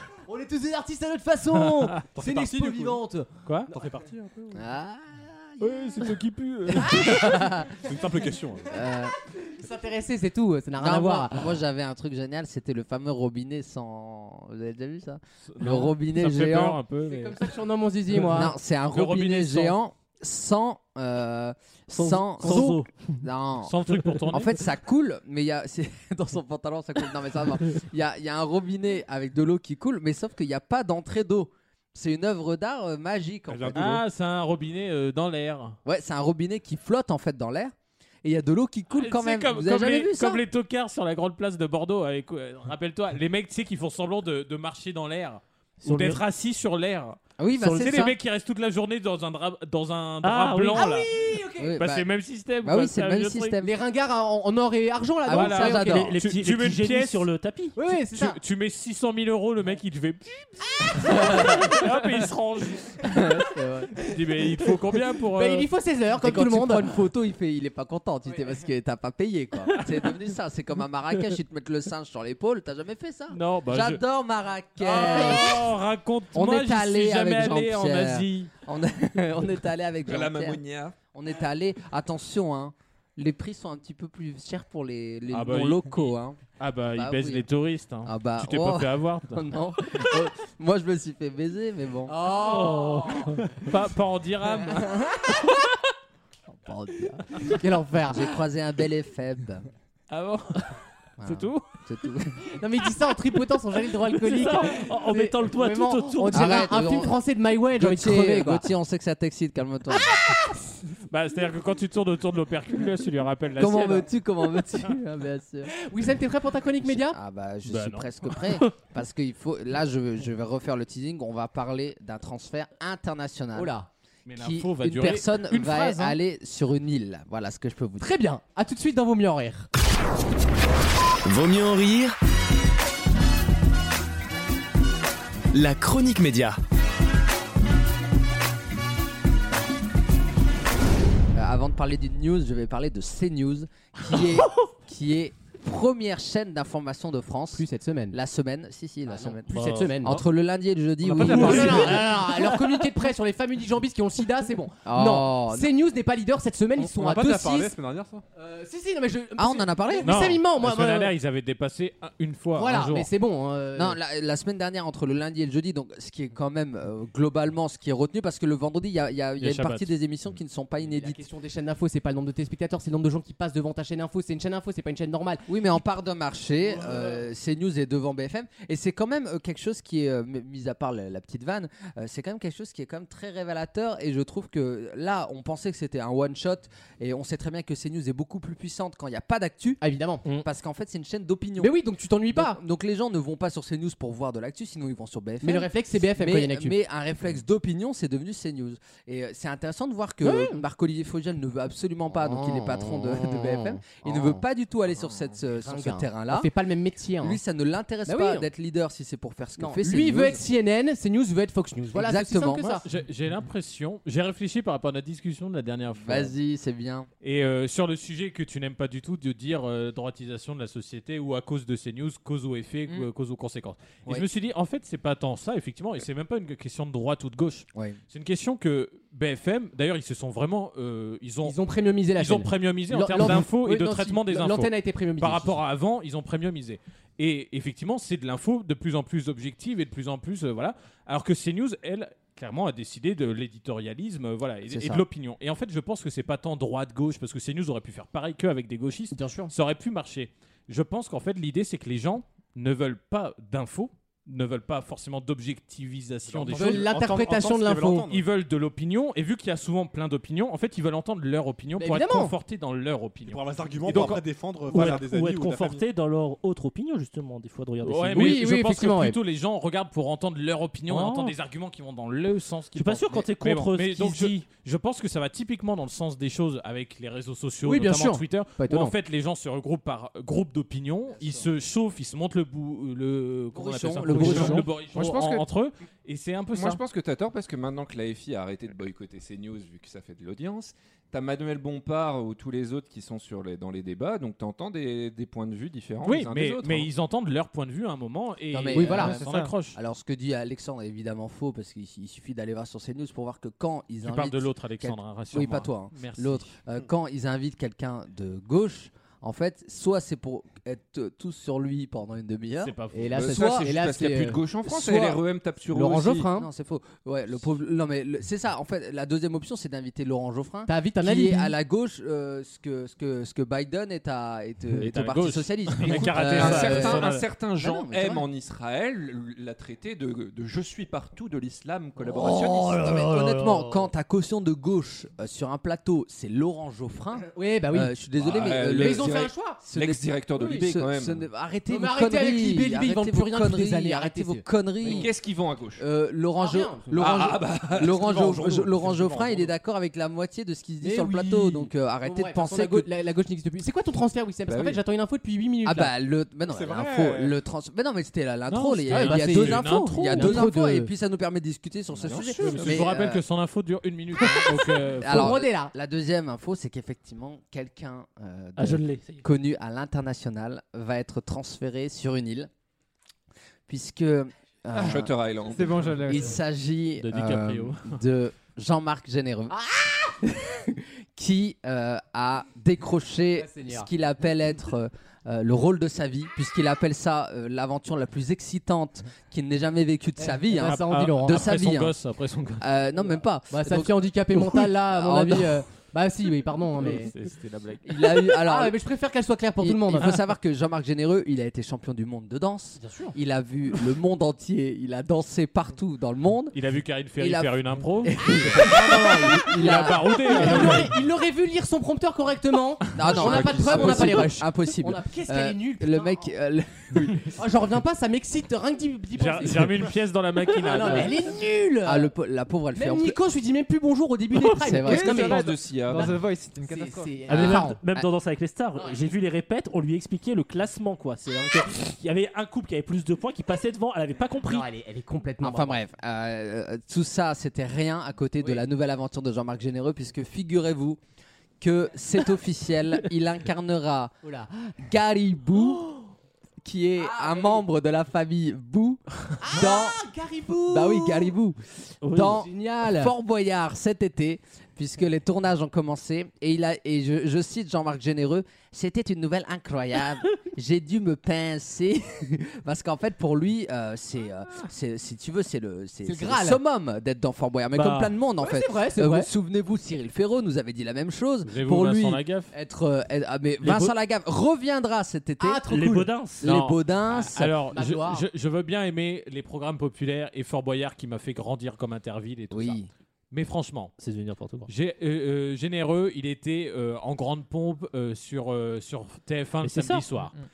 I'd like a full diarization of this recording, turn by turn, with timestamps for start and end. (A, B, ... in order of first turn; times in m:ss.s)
0:00.3-0:03.8 A
0:01.6-0:02.0 B
0:02.1-0:03.0 C
0:03.4-0:03.7 B
0:03.7-0:04.6 C
0:04.5-0:06.0 D
0:05.6-0:07.4 B
0:06.8-0:07.7 D
0:07.7-0:08.8 C
0:08.7-0:09.1 D
0:09.4-0:11.5 A
0:10.8-0:16.8 D
0:15.5-0:17.5 B
0:17.0-0:18.5 A
0:18.2-0:34.0 D
0:18.9-0:19.8 B
0:21.9-0:22.9 E
0:23.6-0:24.6 B
0:33.5-0:34.0 C
0:33.7-0:35.8 B
0:35.8-0:40.4 D
0:38.9-0:51.1 B
0:45.8-0:46.2 E
0:47.4-0:48.2 D
0:47.6-0:48.0 E
0:50.2-0:51.0 E
0:50.7-0:51.8 A
0:51.6-0:52.1 D
0:51.8-0:53.6 B
0:52.6-0:53.7 D
0:53.6-0:56.1 A
0:55.3-0:56.2 D
0:55.3-0:57.3 B
0:55.6-0:57.8 E
0:57.8-0:58.4 A
0:58.0-1:03.1 B
1:01.0-1:01.7 A
1:03.1-1:03.9 D
1:04.0-1:05.7 B
1:05.4-1:06.9 A
1:06.2-1:15.7 D
1:13.3-1:14.0 B
1:14.8-1:18.5 B
1:16.3-1:20.6 D
1:20.1-1:21.0 F
1:21.1-1:26.4 D
1:25.3-1:29.4 B
1:27.0-1:27.4 D
1:28.0-1:32.1 D
1:32.1-1:33.4 A
1:32.3-1:35.7 B
1:34.7-1:35.4 D
1:36.5-1:37.4 D
1:37.5-1:38.3 A
1:38.1-1:39.7 D
1:40.1-1:41.7 B
1:41.2-1:42.4 D
1:42.6-1:48.7 A
1:44.3-1:46.8 E
1:46.3-1:47.2 D
1:47.8-1:50.4 D
1:51.1-1:54.1 B
1:53.6-1:55.7 D
1:55.7-1:57.2 A
1:56.8-2:03.7 D
1:57.7-1:58.6 B
2:03.6-2:03.9 A
2:04.3-2:06.2 B
2:04.4-2:08.1 D
2:08.0-2:09.7 A
2:11.3-2:12.1 G
2:15.5-2:16.6 G
2:21.3-2:32.1 D
2:27.6-2:28.2 A
2:29.1-2:30.2 A
2:29.6-2:29.9 E
2:31.1-2:32.0 C
2:31.2-2:37.7 A
2:31.2-2:32.0 B
2:34.8-2:35.7 D
2:36.8-2:38.2 C
2:38.4-2:41.1 A
2:39.4-2:40.3 D
2:40.0-2:43.1 B
2:42.5-2:44.0 A
2:43.8-2:51.2 D
2:49.4-2:49.9 B
2:50.9-2:55.4 A
2:55.5-3:11.8 D
2:56.8-2:57.2 A
3:09.8-3:10.2 A
3:11.6-3:12.6 A
3:12.3-3:26.5 D
3:15.4-3:16.8 A
3:20.2-3:20.6 A
3:22.2-3:24.4 A
3:25.6-3:27.4 A
3:27.2-3:30.4 D
3:28.1-3:28.5 A
3:29.6-3:32.8 A
3:31.9-3:32.8 D
3:32.8-3:36.3 B
3:36.0-3:37.1 D
3:37.2-3:51.6 B
3:47.7-3:48.0 D
3:51.4-3:55.6 A
3:52.2-4:17.1 B
4:04.7-4:05.0 D
4:09.1-4:09.5 A
4:16.3-4:18.3 C
4:16.5-4:18.1 A
4:18.1-4:25.0 B
4:21.8-4:22.3 A
4:23.2-4:25.9 C
4:24.7-4:28.5 E
4:27.8-4:46.8 B
4:28.2-4:29.2 A
4:30.9-4:31.4 E
4:32.7-4:34.4 E
4:37.6-4:39.0 A
4:41.2-4:41.5 D
4:43.5-4:44.7 D
4:44.1-4:44.6 E
4:44.2-4:45.5 F
4:46.5-4:56.9 F
4:56.0-4:59.8 B
4:58.5-5:13.7 D
4:58.7-4:59.2 A
4:59.0-4:59.5 H
5:04.0-5:06.5 B
5:12.6-5:13.2 B
5:12.9-5:16.5 A
5:13.2-5:16.3 F
5:16.3-5:28.2 D
5:20.7-5:21.6 A
5:24.7-5:27.2 B
5:26.1-5:33.0 F
5:32.2-5:45.1 D
5:37.3-5:37.9 A
5:38.2-5:41.3 F
5:38.6-5:39.6 A
5:40.4-5:40.6 A
5:41.7-5:45.1 A
5:44.8-5:45.8 F
5:45.8-5:52.9 D
5:46.4-5:46.9 A
5:47.0-5:48.5 F
5:48.0-5:49.5 C
5:50.8-5:55.9 A
5:54.5-5:54.8 F
5:55.6-6:03.2 D
5:56.5-5:57.4 C
5:58.5-6:00.5 B
5:58.9-6:00.9 A
6:02.0-6:02.8 F
6:02.4-6:02.6 E
6:02.6-6:05.4 B
6:04.2-6:05.7 A
6:04.3-6:12.5 D
6:08.6-6:09.2 E
6:13.7-6:15.2 D
6:14.7-6:16.0 F
6:15.5-6:16.4 H
6:16.0-6:32.0 D
6:17.0-6:18.0 B
6:19.5-6:19.9 A
6:23.4-6:23.9 A
6:30.2-6:31.5 A
6:30.6-6:32.6 B
6:32.6-6:35.6 D
6:33.5-6:37.1 A
6:36.8-6:37.8 B
6:37.8-6:38.8 D
6:38.1-6:40.2 A
6:39.6-6:46.6 D
6:42.8-6:43.1 A
6:46.5-6:51.0 B
6:47.2-6:50.9 D
6:50.3-6:56.3 A
6:53.0-6:57.4 D
6:53.0-6:54.2 F
6:57.2-6:59.9 A
6:59.2-7:01.2 B
7:00.6-7:02.1 A
7:01.8-7:03.2 D
7:02.8-7:06.1 A
7:04.6-7:05.4 D
7:04.8-7:06.2 F
7:04.8-7:07.3 H
7:06.7-7:07.8 A
7:07.3-7:14.7 E
7:07.4-7:08.1 D
7:08.8-7:09.1 A
7:14.4-7:15.8 A
7:15.4-7:21.0 D
7:21.6-7:24.1 D
7:24.2-7:24.7 A
7:24.8-7:25.9 D
7:26.6-7:30.0 D
7:27.0-7:27.6 A
7:29.4-7:31.3 A
7:30.7-7:55.8 D
7:32.0-7:32.4 E
7:32.2-7:33.1 A
7:46.0-7:46.6 A
7:47.7-7:48.1 E
7:48.4-7:49.3 A
7:51.4-7:52.5 B
7:53.6-7:53.9 E
7:55.4-7:56.1 A
7:55.7-7:56.5 E
7:56.4-7:57.5 D
7:56.4-8:03.9 B
7:57.7-7:58.3 A
8:02.5-8:02.9 D
8:04.0-8:04.7 E
8:04.7-8:10.3 B
8:09.6-8:10.3 E